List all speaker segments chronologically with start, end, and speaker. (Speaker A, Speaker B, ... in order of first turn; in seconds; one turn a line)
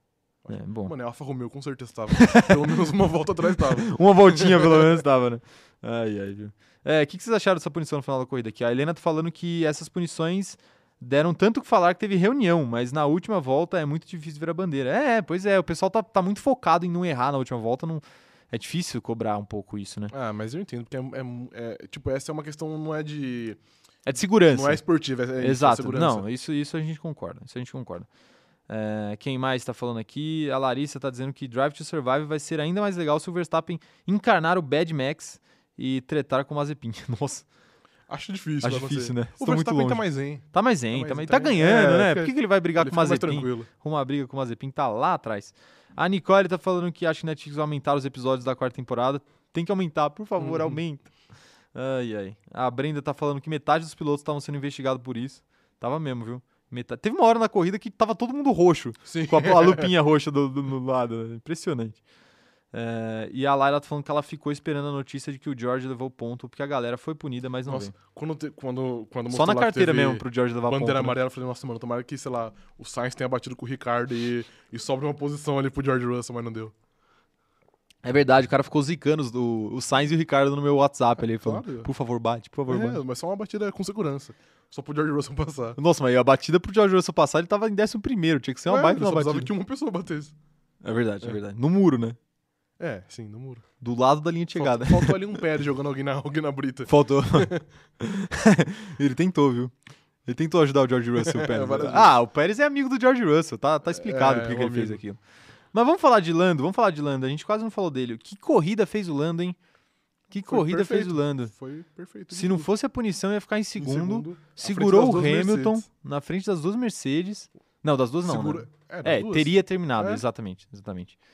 Speaker A: 0.4-5.0
Speaker B: 0.5-0.9
Speaker B: 2.1-2.8
Speaker B: 3.6-20.1
Speaker A: 20.1-23.6
Speaker B: 24.1-24.8
Speaker A: 24.5-26.3
Speaker B: 25.4-28.1
Speaker B: 28.7-37.5
Speaker A: 38.1-43.7
Speaker B: 38.6-51.1
Speaker A: 50.4-50.8
Speaker B: 51.7-62.0
Speaker A: 59.1-59.9
Speaker B: 62.7-67.9
Speaker A: 67.7-76.7
Speaker B: 69.3-71.2
Speaker B: 78.0-83.0
Speaker A: 81.2-81.9
Speaker A: 82.7-85.8
Speaker B: 85.8-89.5
Speaker A: 88.7-90.3
Speaker B: 90.8-92.2
Speaker A: 92.8-93.6
Speaker B: 93.8-95.2
Speaker A: 94.5-97.6
Speaker B: 96.9-99.7
Speaker B: 100.2-105.2
Speaker A: 101.2-102.2
Speaker A: 103.9-105.0
Speaker B: 105.7-109.6
Speaker B: 110.3-111.5
Speaker A: 110.5-112.7
Speaker B: 112.3-121.2
Speaker A: 113.8-115.8
Speaker A: 118.2-120.2